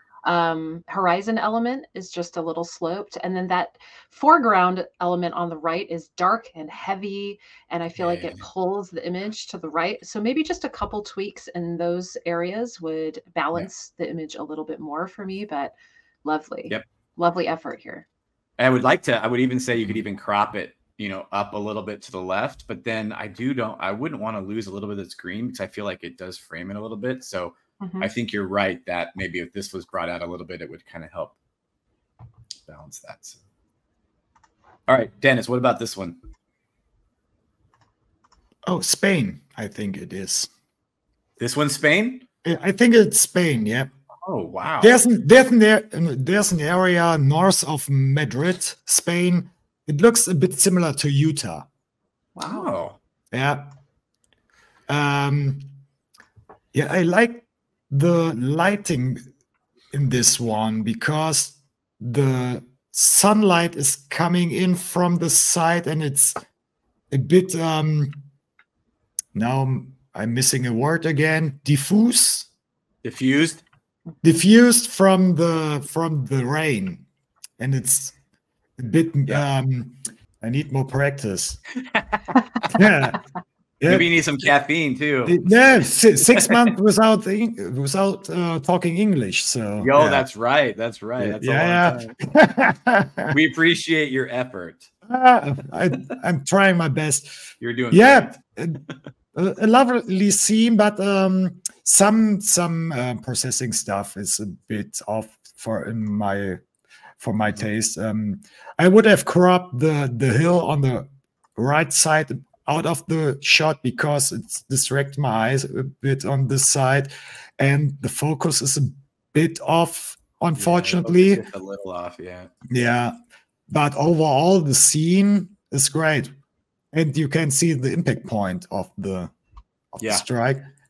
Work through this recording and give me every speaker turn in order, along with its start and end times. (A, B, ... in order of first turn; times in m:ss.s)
0:00.2-0:15.7 A
0:08.0-0:08.4 B
0:16.2-0:18.0 A
0:18.6-0:31.4 B
0:27.8-0:28.1 A
0:32.7-0:33.4 B
0:34.9-0:36.2 B
0:38.7-0:40.5 C
0:41.4-0:42.2 B
0:42.4-0:43.9 C
0:44.2-0:45.0 B
0:44.8-0:51.7 C
0:52.4-0:52.7 A
0:52.4-0:53.0 B
0:53.3-0:53.7 C
0:54.9-0:55.7 C
0:56.7-0:59.2 C
0:59.9-1:06.4 C
1:07.1-1:08.2 C
1:09.4-1:12.5 C
1:13.0-1:13.6 B
1:14.2-1:17.0 C
1:17.6-1:18.2 C
1:18.8-1:21.6 C
1:21.8-1:22.7 B
1:22.7-1:23.2 C
1:23.8-1:24.1 C
1:23.9-1:26.7 B
1:25.3-1:30.2 C
1:29.8-1:32.2 B
1:31.2-1:33.4 C
1:33.3-1:34.9 B
1:35.1-1:38.8 C
1:37.6-1:38.3 B
1:39.3-1:46.6 C
1:47.2-2:01.4 C
2:00.6-2:02.5 B
2:02.7-2:03.2 C
2:03.7-2:06.3 C
2:06.9-2:09.3 C
2:09.9-2:10.6 C